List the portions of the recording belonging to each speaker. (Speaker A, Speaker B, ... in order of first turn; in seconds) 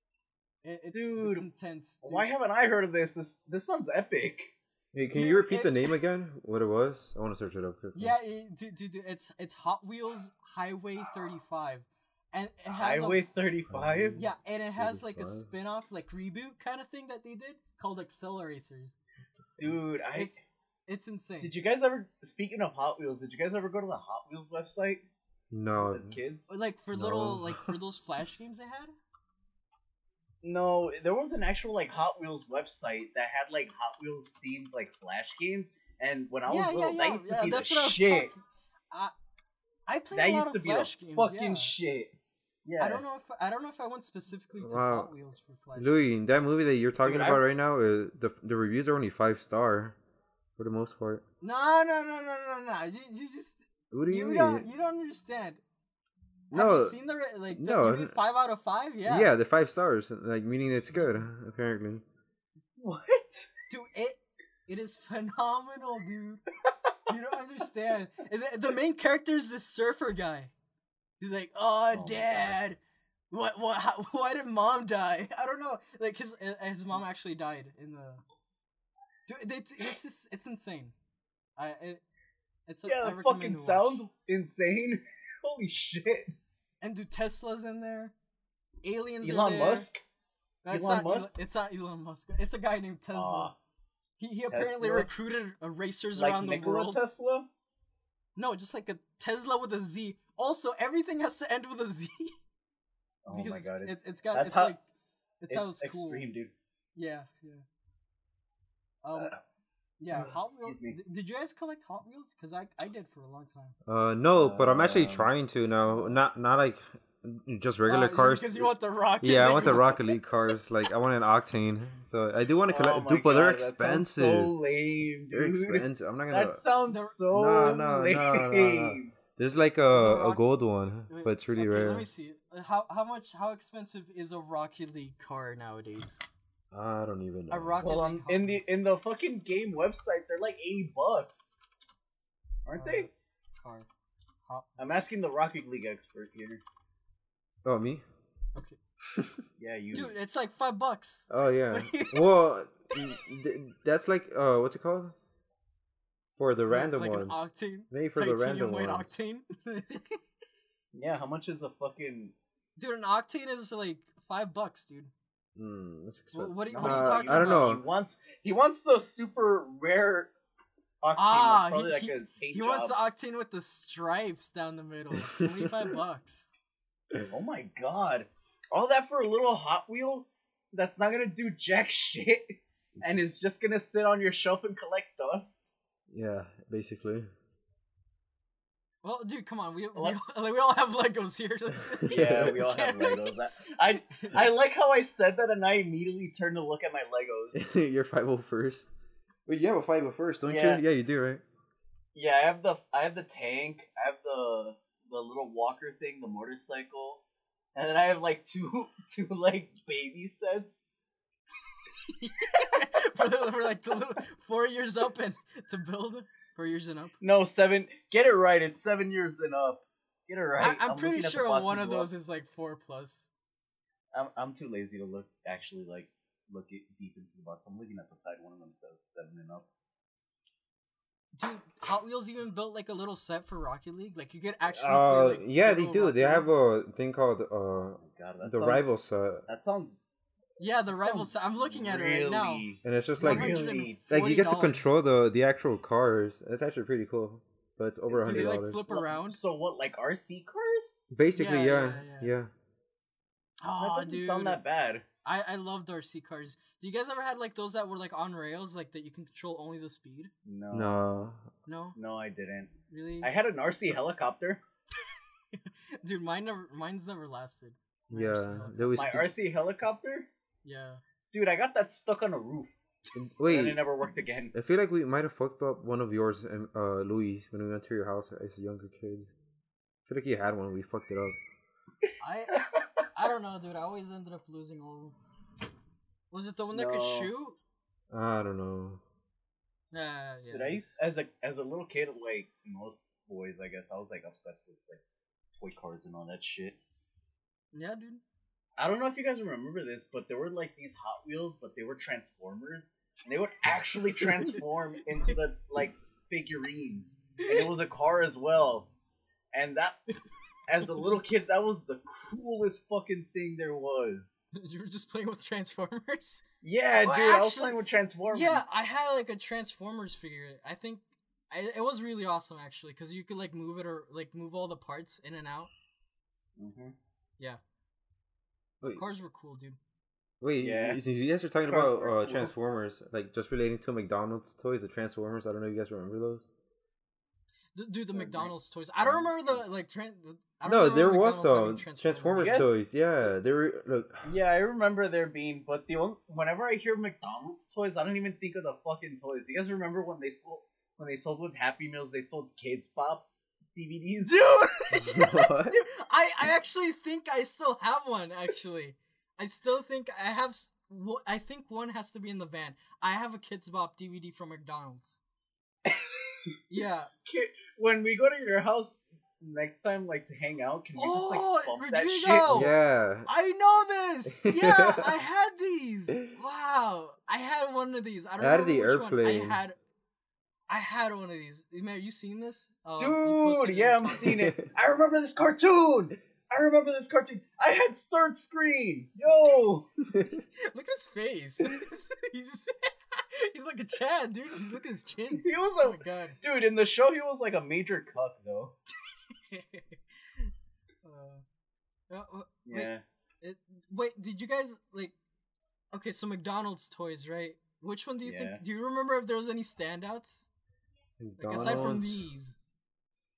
Speaker A: 0.6-2.3, 5.0-6.0, 7.9-13.2, 14.2-19.0, 20.1-21.5, 26.5-28.9, 36.5-38.4, 39.9-41.8, 42.8-46.2, 51.4-55.6, 56.5-59.3, 63.7-66.4, 67.1-70.5, 71.2-72.8, 73.3-78.2, 79.3-80.9, 81.6-82.0, 82.7-84.0, 86.8-88.1, 88.8-89.9, 90.6-93.5, 94.2-97.0, 98.3-102.3, 103.3-104.8, 105.4-106.2, 106.9-107.6, 109.0-109.3, 110.0-113.7, 117.9-120.2, 126.9-127.8, 129.9-130.4, 131.1-136.2, 137.5-138.7, 142.7-143.9, 144.4-144.8, 149.9-152.3, 156.7-160.2, 162.8-165.1, 166.3-167.7, 171.2-176.5, 189.0-193.3, 212.1-217.2, 220.6-223.3, 231.3-236.5, 240.6-242.7, 243.2-244.9, 248.2-249.4, 251.3-252.3, 253.6-254.6, 255.2-260.3, 261.6-261.9, 262.9-263.3, 265.5-269.0, 270.6-271.0, 282.2-285.2, 286.3-287.6, 289.9-291.0, 297.7-298.2, 304.2-304.6, 314.5-316.4, 317.0-317.7, 318.3-325.7, 328.8-329.8, 337.7-342.7, 354.2-365.2, 366.7-367.1, 371.0-372.7, 373.2-379.8, 380.7-384.3, 390.6-396.4, 399.3-400.5, 401.0-401.4, 402.1-405.1, 405.9-410.5, 411.4-412.6
Speaker B: 0.9-1.5, 2.0-4.5, 12.7-14.2, 19.6-20.3, 21.4-25.0, 25.8-26.5, 30.4-38.3, 40.1-42.1, 42.6-43.0, 47.0-47.4, 62.8-63.5, 82.8-86.3, 89.2-90.0, 90.7-91.3, 93.1-93.5, 94.5-95.1, 96.2-97.5, 103.2-104.7, 105.5-106.5, 109.1-109.4, 110.1-111.0, 114.3-115.3, 115.8-116.2, 122.7-129.1, 137.8-141.5, 142.6-143.1, 144.8-146.6, 149.6-150.1, 160.9-162.3, 166.7-170.3, 171.0-173.0, 177.2-185.6, 192.1-197.6, 200.4-200.8, 202.1-207.2, 207.7-210.8, 217.2-222.1, 224.1-229.7, 238.0-238.9, 239.5-240.0, 241.0-244.0, 248.1-251.0, 253.8-255.0, 260.4-261.0, 261.9-264.6, 268.9-270.3, 271.3-272.7, 273.4-274.5, 282.6-282.8, 286.7-287.3, 290.5-295.0, 295.5-296.8, 298.8-308.9, 309.5-310.0, 310.7-314.4, 316.6-318.6, 326.6-326.9, 330.6-331.0, 331.6-332.5, 338.1-339.6, 342.4-342.7, 344.2-354.4, 365.9-366.5, 367.2-372.7, 383.0-389.9, 395.4-398.7, 402.6-403.0, 408.2-408.6
Speaker C: 4.9-8.2, 13.7-15.5, 25.5-26.2, 26.9-27.7, 44.6-45.1, 45.8-50.0, 50.6-51.2, 53.9-54.7, 56.5-57.0, 57.5-58.1, 59.0-62.0, 71.9-72.6, 113.8-118.7, 119.2-124.5, 125.3-126.6, 127.3-132.1, 136.7-137.8, 147.6-148.0, 149.1-149.4, 151.3-155.1, 156.4-159.2, 165.6-167.8, 175.1-175.9, 183.0-183.2, 186.1-187.3, 192.0-192.5, 197.5-198.9, 199.4-201.4, 234.7-239.4, 242.8-248.8, 251.1-252.5, 260.7-261.5, 268.1-269.3, 273.1-273.8, 274.5-279.3, 280.1-281.4, 288.1-289.0, 330.4-336.5, 340.6-344.2, 354.9-355.8, 372.5-373.3, 374.3-375.1, 378.4-379.6, 384.3-384.7, 390.1-390.4, 411.2-412.2